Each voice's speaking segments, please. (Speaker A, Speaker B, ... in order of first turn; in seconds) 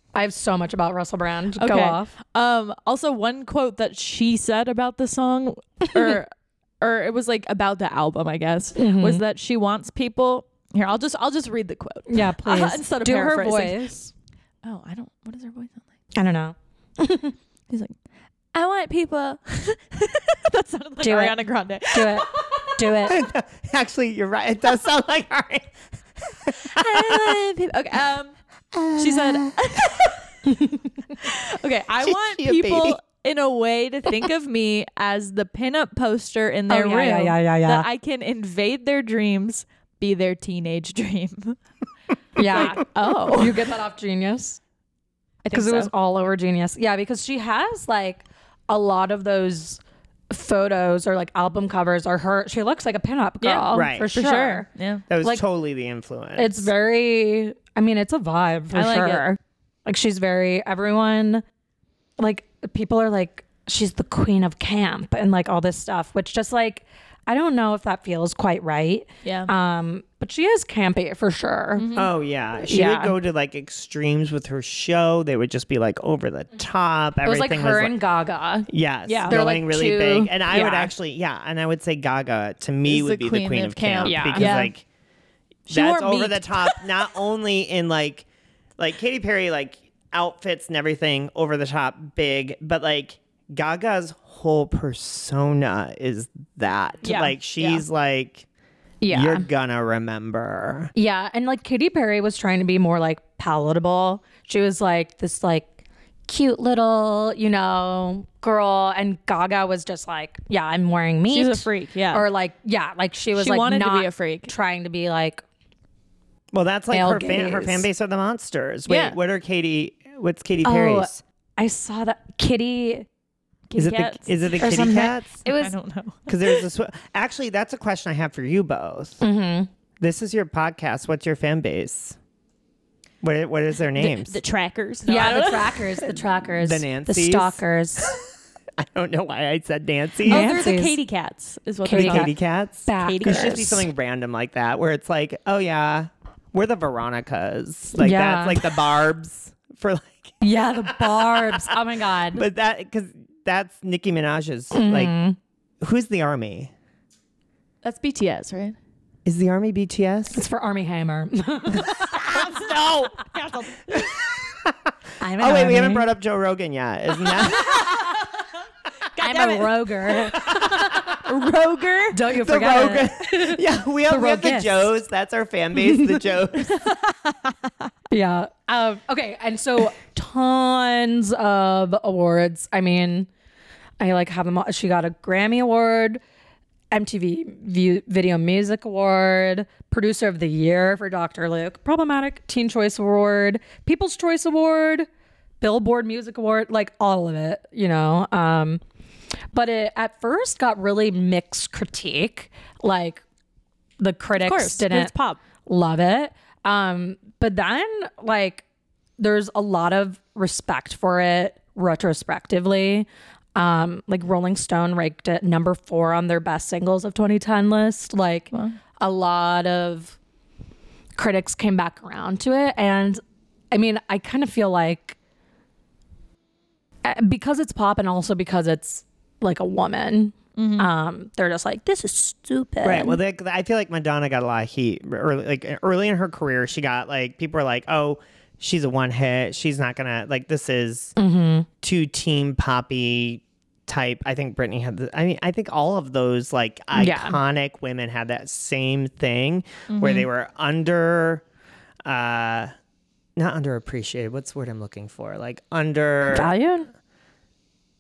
Speaker A: 0.1-2.1, 8.8-9.2, 12.1-14.1, 16.1-17.3, 21.0-23.2, 30.5-30.8, 36.7-37.9, 42.4-44.6, 45.5-49.8, 50.3-54.7, 56.4-61.4, 62.2-71.9, 72.7-73.1, 77.2-78.7, 79.2-80.9, 84.0-84.6, 99.0-99.4, 100.9-105.7, 106.3-115.4, 116.9-117.9, 120.6-123.1, 124.6-125.7, 129.2-129.7, 135.1-138.1, 140.2-141.0, 141.8-142.3, 142.8-143.8, 147.9-148.8, 150.4-152.4, 154.7-155.4, 160.3-161.9, 165.2-166.1, 169.2-171.2, 172.1-174.9, 175.9-176.2, 178.1-183.3, 184.0-186.2, 186.9-195.1, 195.6-198.8, 199.5-203.2, 204.0-205.1, 205.7-208.6, 209.2-220.2, 221.2-223.2, 223.7-225.2, 227.0-233.2, 241.2-241.7, 246.9-247.4, 256.3-256.9
Speaker B: 1.6-13.8, 14.6-15.8, 17.7-17.9, 18.5-22.9, 26.6-28.3, 28.9-30.3, 31.2-41.6, 42.5-43.7, 45.4-45.9, 53.4-55.0, 58.7-59.2, 69.2-69.5, 71.7-72.1, 79.0-79.4, 80.5-80.9, 82.9-84.7, 85.7-86.9, 97.0-97.8, 111.3-112.3, 113.3-114.5, 118.9-119.2, 123.7-124.9, 125.4-126.6, 133.9-135.9, 140.2-142.3, 143.0-143.7, 157.8-158.8, 161.8-164.2, 167.2-168.5, 169.2-170.3, 171.2-172.2, 176.6-177.9, 204.4-205.4, 230.6-230.9, 249.9-250.3
Speaker C: 23.1-25.7, 26.2-27.4, 28.7-29.9, 32.0-33.0, 53.7-54.1, 55.1-56.7, 71.9-78.0, 78.7-84.8, 85.7-88.2, 88.8-98.5, 99.1-100.9, 116.5-121.2, 123.8-125.4, 126.3-129.2, 130.0-132.2, 133.2-134.4, 136.1-138.2, 138.8-140.5, 141.9-151.7, 152.3-155.1, 155.8-156.7, 159.2-160.4, 162.2-163.1, 163.9-168.0, 170.4-171.1, 172.4-176.8, 232.8-241.1, 241.8-251.4, 252.1-252.7, 253.4-256.5